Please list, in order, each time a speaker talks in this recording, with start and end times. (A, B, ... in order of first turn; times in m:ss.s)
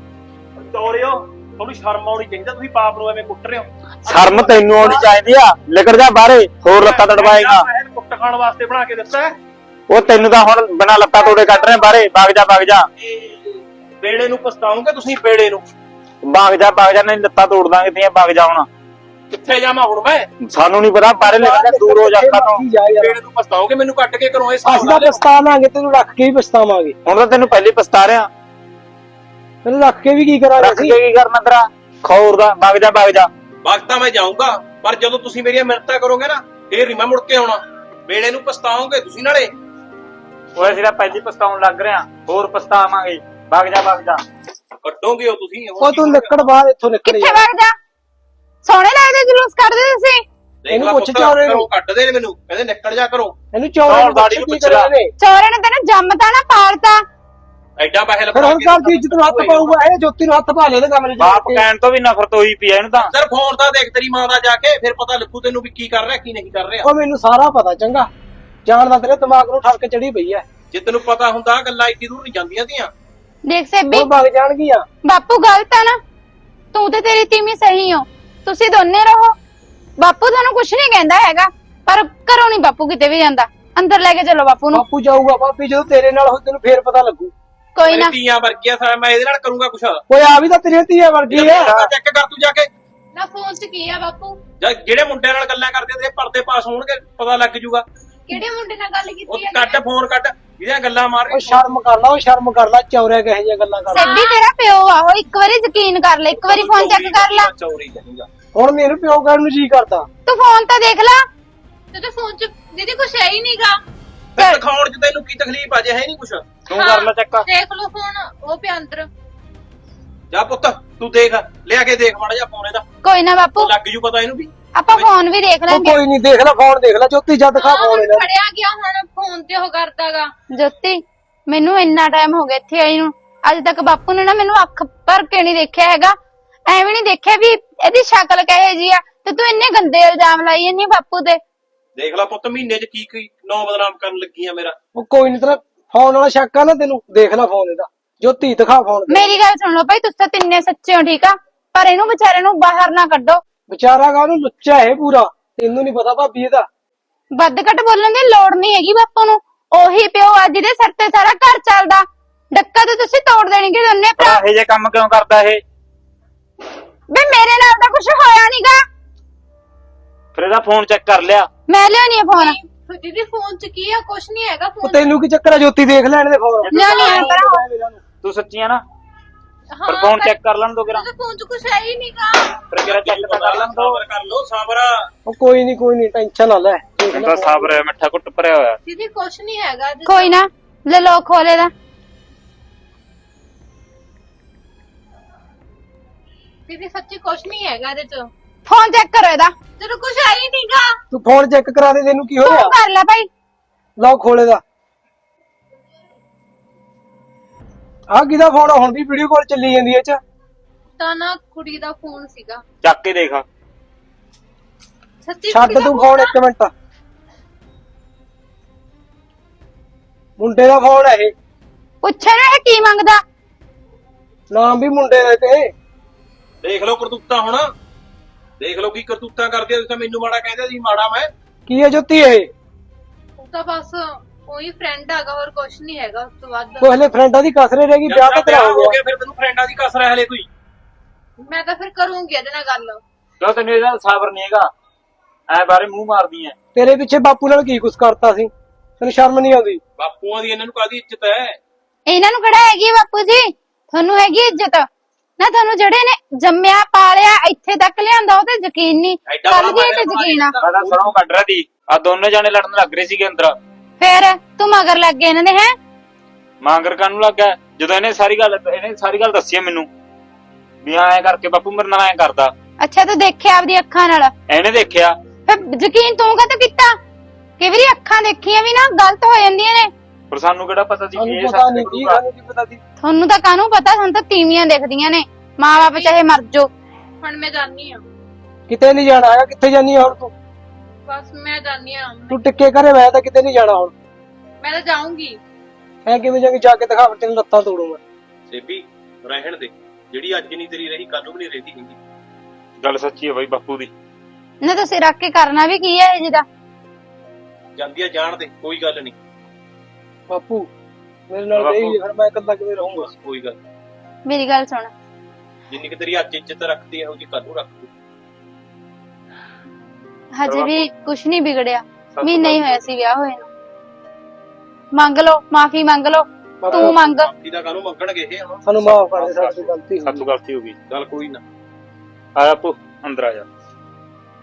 0:00.6-0:05.1 A
0:04.1-0:07.7 B
0:06.7-0:09.4 A
0:09.9-0:12.9 B
0:11.2-0:11.8 C
0:14.0-0:15.6 A
0:16.2-0:18.7 B
0:19.3-0:20.3 A
0:20.4-0:22.6 B
0:21.2-0:23.2 D
0:23.0-0:25.2 A
0:24.6-0:27.0 D
0:27.1-0:28.3 B
0:29.6-0:31.0 D
0:30.6-0:33.3 B
0:33.6-0:39.6 A
0:40.6-0:44.2 B
0:44.8-0:46.5 A
0:45.8-0:47.4 D
0:47.1-0:47.8 E
0:48.6-0:50.2 E
0:50.6-0:53.4 A
0:50.7-0:51.7 D
0:53.5-0:55.1 D
0:53.9-0:54.9 B
0:55.2-0:57.0 E
0:57.8-0:59.7 A
0:58.3-1:01.6 D
1:01.2-1:03.1 B
1:03.1-1:06.9 A
1:06.8-1:08.1 D
1:08.7-1:10.4 D
1:10.7-1:12.9 A
1:13.5-1:14.1 E
1:13.9-1:14.9 D
1:15.0-1:16.0 E
1:16.7-1:19.4 E
1:20.0-1:24.8 E
1:24.7-1:27.3 D
1:27.8-1:28.2 E
1:27.8-1:30.0 A
1:30.1-1:31.8 D
1:31.3-1:32.7 A
1:33.2-1:34.4 C
1:34.6-1:37.8 A
1:38.3-1:39.8 C
1:39.3-1:41.6 A
1:41.3-1:44.1 D
1:43.9-1:44.4 C
1:43.9-1:47.5 E
1:46.3-1:48.3 A
1:48.5-1:50.1 D
1:50.3-1:51.3 E
1:51.9-1:53.8 C
1:54.4-1:56.5 A
1:54.4-1:54.6 E
1:56.7-1:57.5 B
1:56.7-1:59.1 C
2:00.3-2:02.8 A
2:03.0-2:03.7 E
2:03.6-2:05.1 A
2:04.8-2:06.0 E
2:05.7-2:08.3 D
2:07.6-2:10.3 C
2:10.5-2:21.4 E
2:22.0-2:24.8 A
2:25.0-2:29.3 D
2:29.1-2:33.4 E
2:33.7-2:36.7 D
2:37.4-2:44.4 E
2:44.2-2:45.6 B
2:47.1-2:48.8 E
2:50.3-2:51.5 B
2:51.7-2:52.6 E
2:52.4-2:55.0 C
2:54.8-2:58.0 D
2:56.7-2:57.6 E
2:56.7-2:57.3 C
2:58.2-2:58.8 B
2:59.7-3:02.6 C
2:59.9-3:01.0 B
3:02.7-3:04.0 B
3:02.8-3:05.1 A
3:05.3-3:07.8 D
3:07.1-3:08.8 B
3:08.8-3:10.4 C
3:10.1-3:11.7 E
3:16.7-3:18.3 C
3:18.7-3:19.5 E
3:19.8-3:21.0 C
3:21.1-3:22.7 D
3:22.4-3:23.3 E
3:24.0-3:24.6 D
3:28.1-3:30.2 D
3:31.0-3:32.6 C
3:32.8-3:33.4 B
3:35.2-3:36.3 C
3:35.5-3:36.7 D
3:40.4-3:41.3 D
3:42.0-3:43.2 E
3:44.5-3:45.7 D
3:46.6-3:47.7 A
3:48.6-3:51.3 A
3:51.7-3:52.5 D
3:53.4-3:57.0 C
3:56.8-3:59.0 D
3:58.1-4:00.5 A
4:01.4-4:03.0 C
4:03.4-4:04.7 B
4:05.5-4:06.6 B
4:06.8-4:09.8 D
4:10.0-4:11.6 A
4:12.1-4:14.9 E
4:15.4-4:20.5 E
4:19.3-4:21.2 A
4:20.6-4:23.6 B
4:24.0-4:25.8 E
4:26.6-4:29.9 B
4:30.8-4:32.5 B
4:32.8-4:34.3 E
4:34.5-4:35.2 B
4:35.5-4:37.0 E
4:37.6-4:39.9 E
4:40.3-4:42.2 B
4:41.2-4:42.8 D
4:43.0-4:46.7 E
4:45.9-4:46.2 C
4:47.2-4:48.0 C
4:48.7-4:50.3 D
4:51.1-4:52.4 C
4:52.3-4:53.9 D
4:54.6-4:55.4 C
4:56.1-4:58.0 D
4:58.5-5:02.0 A
5:02.8-5:03.9 B
5:04.6-5:06.4 E
5:07.8-5:09.2 A
5:10.3-5:10.7 D
5:11.3-5:13.1 D
5:11.6-5:12.0 B
5:13.0-5:13.6 A
5:14.3-5:14.9 E
5:15.7-5:17.9 A
5:20.4-5:23.5 E
5:20.5-5:20.7 B
5:22.1-5:22.8 B
5:24.9-5:27.3 E
5:26.6-5:27.0 D
5:26.7-5:28.6 A
5:28.6-5:30.3 D
5:29.0-5:30.8 B
5:30.9-5:31.4 A
5:32.4-5:33.5 B